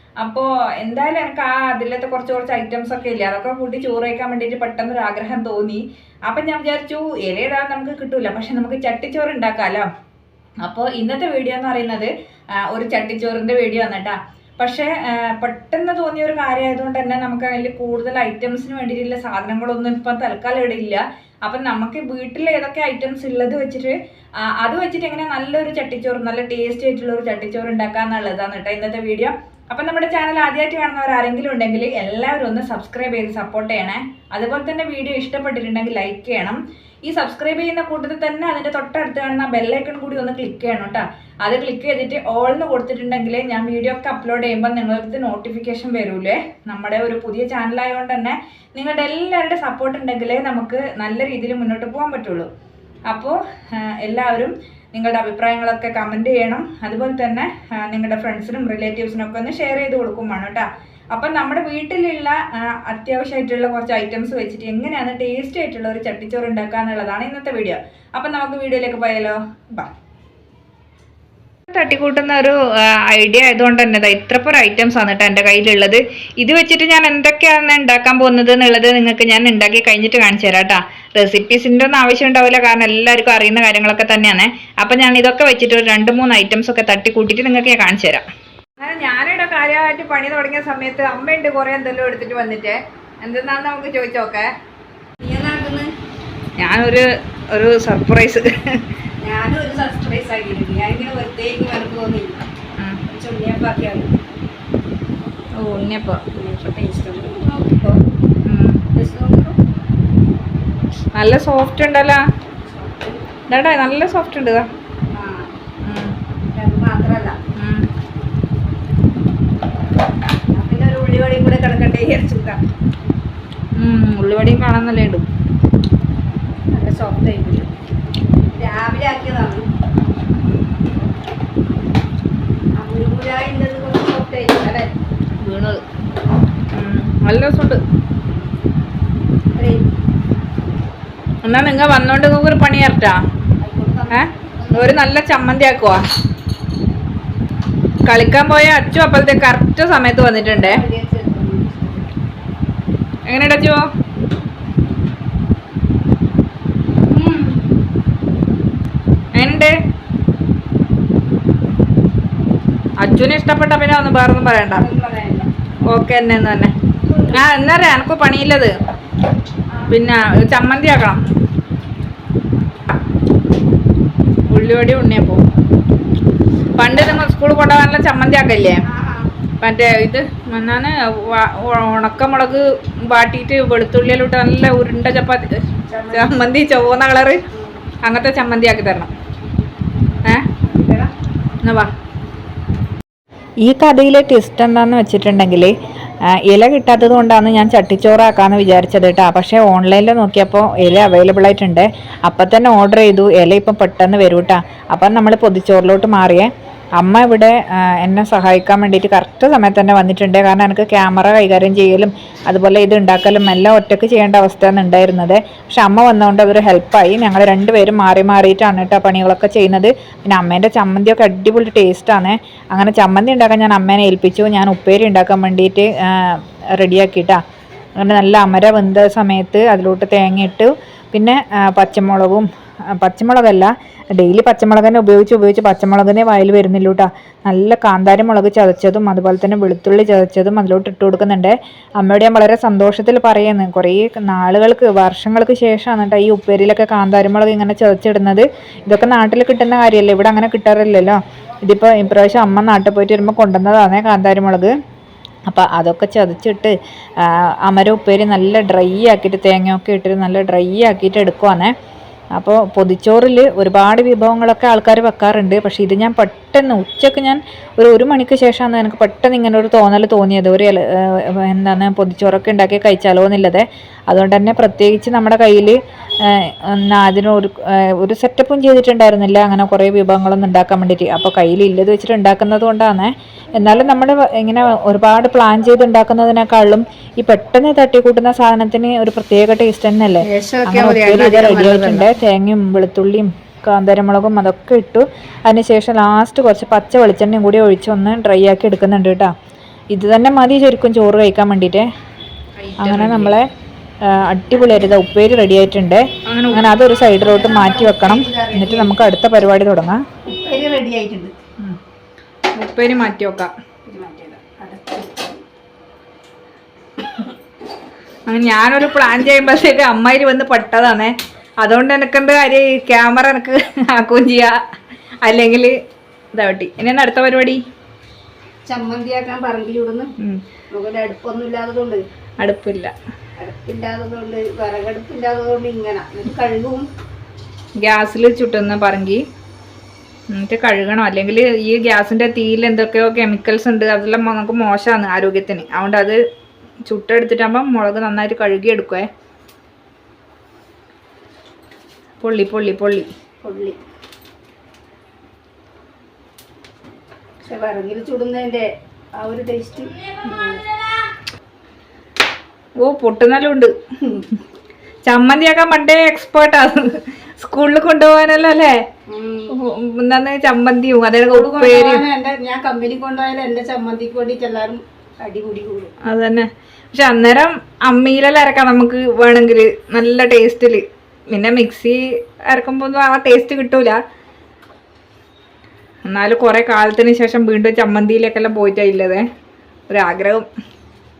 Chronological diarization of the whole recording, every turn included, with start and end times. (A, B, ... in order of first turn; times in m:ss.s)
0:00.2-0:09.9 A
0:10.6-0:12.1 A
0:12.6-0:24.0 A
0:24.5-0:52.5 A
0:53.1-1:09.9 A
1:11.7-1:28.2 A
1:28.8-1:34.5 A
1:35.2-1:35.9 B
1:36.6-1:38.9 A
1:39.2-1:42.4 B
1:43.1-1:44.1 B
1:45.6-1:46.2 A
1:46.3-1:48.0 B
1:48.4-1:48.8 A
1:48.9-1:49.6 B
1:51.2-1:52.2 A
1:52.6-1:53.2 B
1:53.5-1:54.7 A
1:55.1-1:55.6 B
1:55.8-1:56.1 A
1:56.5-1:57.4 B
1:57.6-1:57.9 A
2:00.5-2:02.6 B
2:03.8-2:05.3 A
2:06.7-2:07.7 B
2:08.5-2:09.7 B
2:12.8-2:14.9 B
2:15.4-2:15.8 A
2:16.7-2:17.8 A
2:19.6-2:19.9 B
2:21.4-2:23.2 A
2:23.6-2:25.0 B
2:24.1-2:26.0 A
2:28.1-2:30.8 A
2:30.5-2:32.2 B
2:33.3-2:33.8 A
2:37.1-2:37.6 B
2:39.4-2:39.8 A
2:43.0-2:44.9 A
2:44.7-2:45.5 B
2:45.9-2:46.7 A
2:47.1-2:47.4 B
2:47.3-2:48.7 A
2:49.9-2:51.2 A
2:54.5-2:55.4 A
2:56.8-2:58.8 A
2:58.9-2:59.3 B
2:59.6-3:05.6 A
3:05.9-3:06.5 B
3:06.1-3:07.4 A
3:07.5-3:07.8 B
3:08.0-3:09.1 A
3:10.6-3:11.1 B
3:11.6-3:11.9 A
3:13.6-3:15.7 A
3:16.3-3:47.4 A
3:48.0-4:14.7 A
4:15.5-4:21.7 A
4:22.3-4:59.3 A
4:50.2-4:52.1 B
4:59.9-5:01.9 A
5:02.7-5:03.3 B
5:02.8-5:03.5 A
5:04.1-5:10.0 A
5:07.2-5:09.0 B
5:10.3-5:11.4 B
5:12.5-5:13.5 A
5:13.9-5:15.4 B
5:18.3-5:24.6 A
5:25.2-5:25.8 A
5:26.3-5:27.6 A
5:28.7-5:30.1 B
5:30.7-5:32.0 B
5:32.4-5:32.9 A
5:33.4-5:36.9 B
5:37.8-5:39.2 A
5:40.3-5:46.2 A
5:46.9-5:49.1 A
5:52.2-5:53.1 A
5:53.4-5:53.8 B
5:57.4-6:00.7 B
6:02.8-6:03.7 A
6:05.1-6:08.8 A
6:09.1-6:09.5 B
6:09.5-6:12.1 A
6:11.3-6:15.9 B
6:16.0-6:24.0 A
6:26.1-6:29.2 A
6:29.9-6:30.5 A